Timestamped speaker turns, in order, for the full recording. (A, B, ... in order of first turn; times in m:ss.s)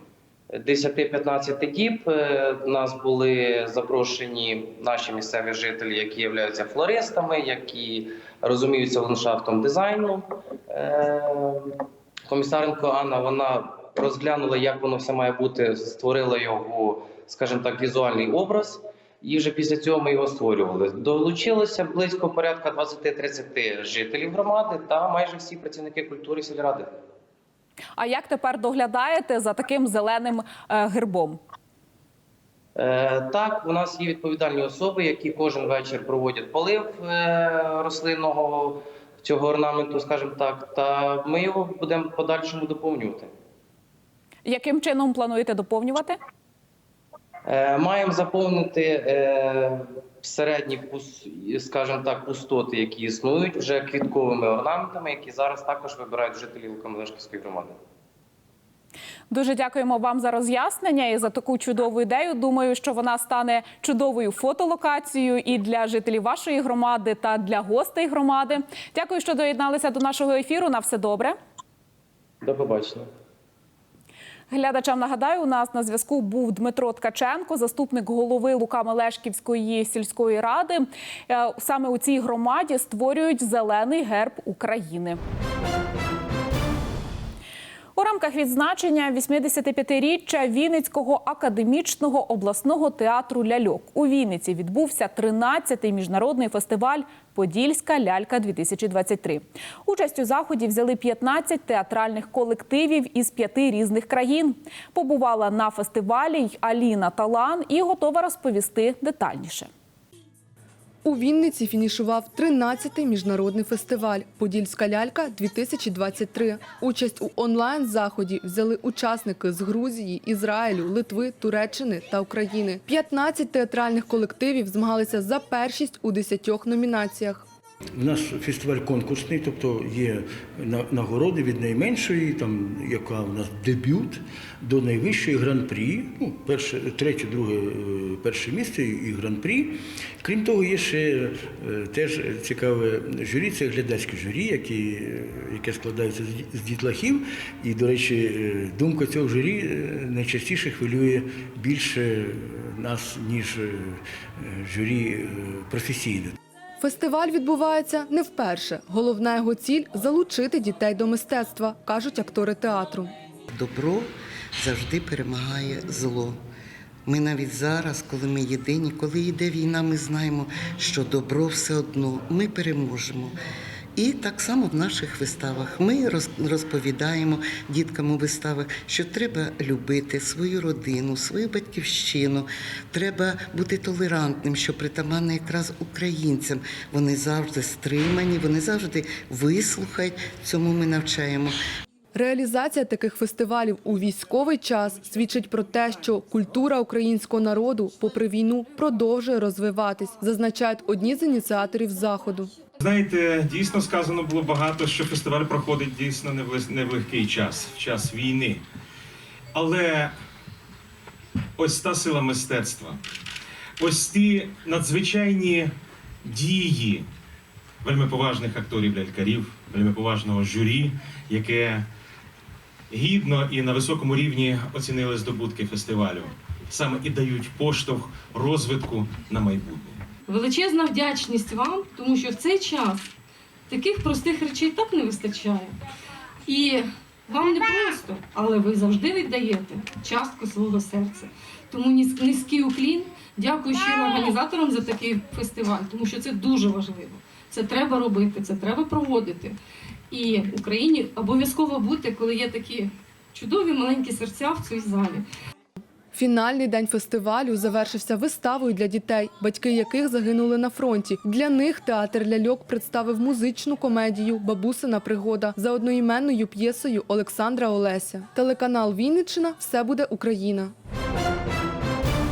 0:00.6-0:11.8 A
0:12.3-0:26.9 A
0:28.0-0:31.4 B
0:32.8-0:43.3 A
0:44.4-0:46.2 B
0:47.5-0:57.7 A
0:59.3-1:11.4 B
1:12.4-1:13.0 A
1:14.5-1:25.2 B
1:28.0-1:49.7 B
1:51.0-2:07.4 C
2:08.0-2:36.4 D
2:36.8-2:43.1 C
2:43.5-2:46.4 E
2:47.1-2:53.3 E
2:54.0-3:11.6 E
3:12.1-3:22.5 C
3:22.8-3:28.6 F
3:29.6-3:30.1 F
3:31.6-3:33.0 F
3:33.8-3:35.7 F
3:36.2-3:37.1 F
3:37.8-3:41.9 F
3:42.9-3:50.0 F
3:50.3-3:53.1 G
3:53.7-3:55.8 G
3:56.5-4:09.6 G
4:10.1-4:15.3 G
4:16.1-4:30.7 C